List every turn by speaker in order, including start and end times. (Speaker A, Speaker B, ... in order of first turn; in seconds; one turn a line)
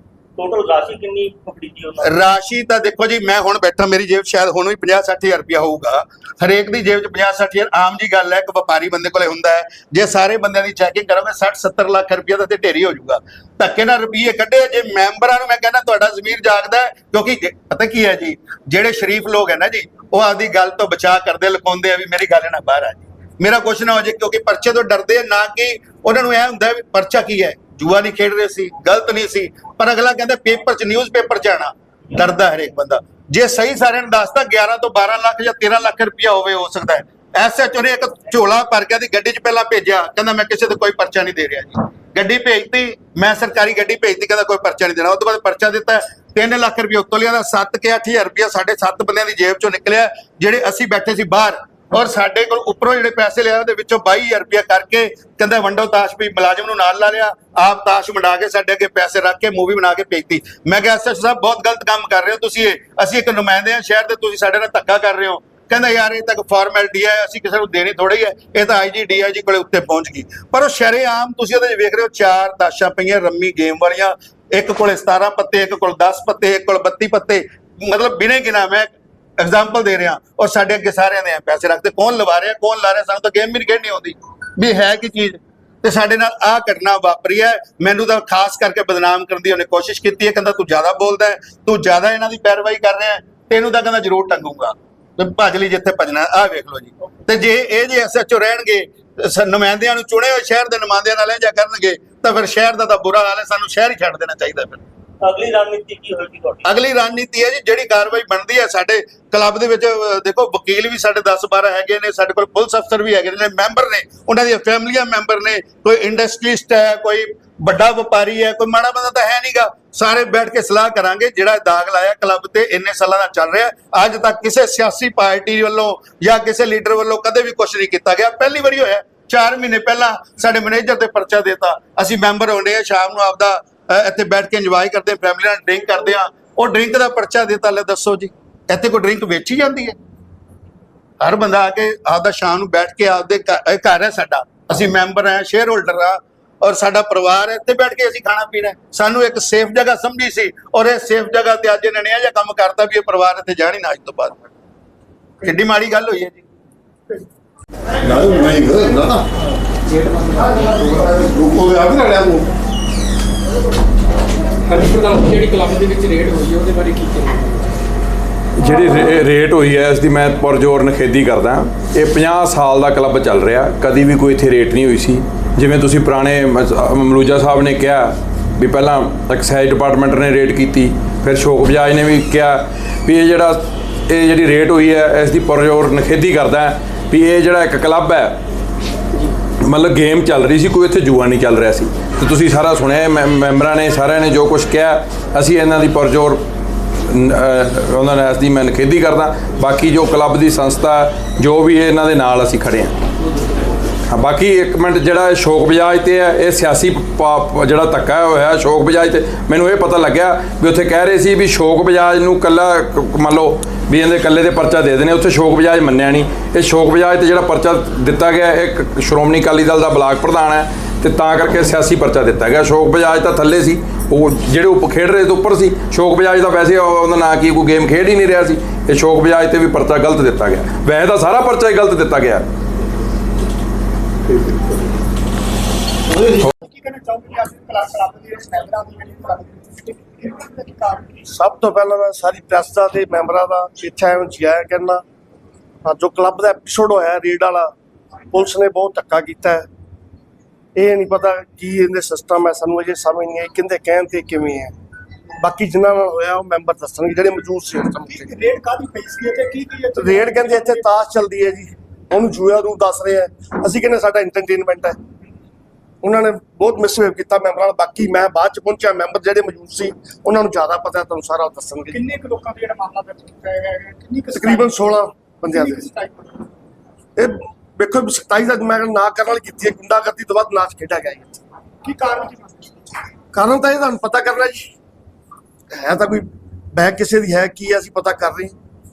Speaker A: 0.4-2.2
Speaker B: 2.0-104.8
Speaker A: 105.2-106.6
Speaker B: 106.7-140.0
Speaker B: 141.2-154.4
Speaker B: 155.4-156.4
Speaker C: 158.1-159.2
Speaker C: 160.7-162.5
Speaker D: 165.0-167.2
Speaker E: 168.6-188.4
Speaker E: 189.6-196.4
Speaker E: 197.1-202.9
Speaker E: 204.1-232.5
Speaker F: 236.6-241.2
Speaker G: 241.3-245.0
Speaker G: 245.8-247.7
Speaker G: 248.3-249.7
Speaker G: 250.8-254.7
Speaker G: 255.4-258.3
Speaker F: 258.1-260.9
Speaker G: 260.0-265.0
Speaker G: 266.0-272.0
Speaker F: 271.9-275.0
Speaker G: 274.3-275.9
Speaker F: 275.5-276.4
Speaker G: 277.2-281.4
Speaker F: 281.8-282.7
Speaker G: 283.3-284.7
Speaker G: 285.7-288.5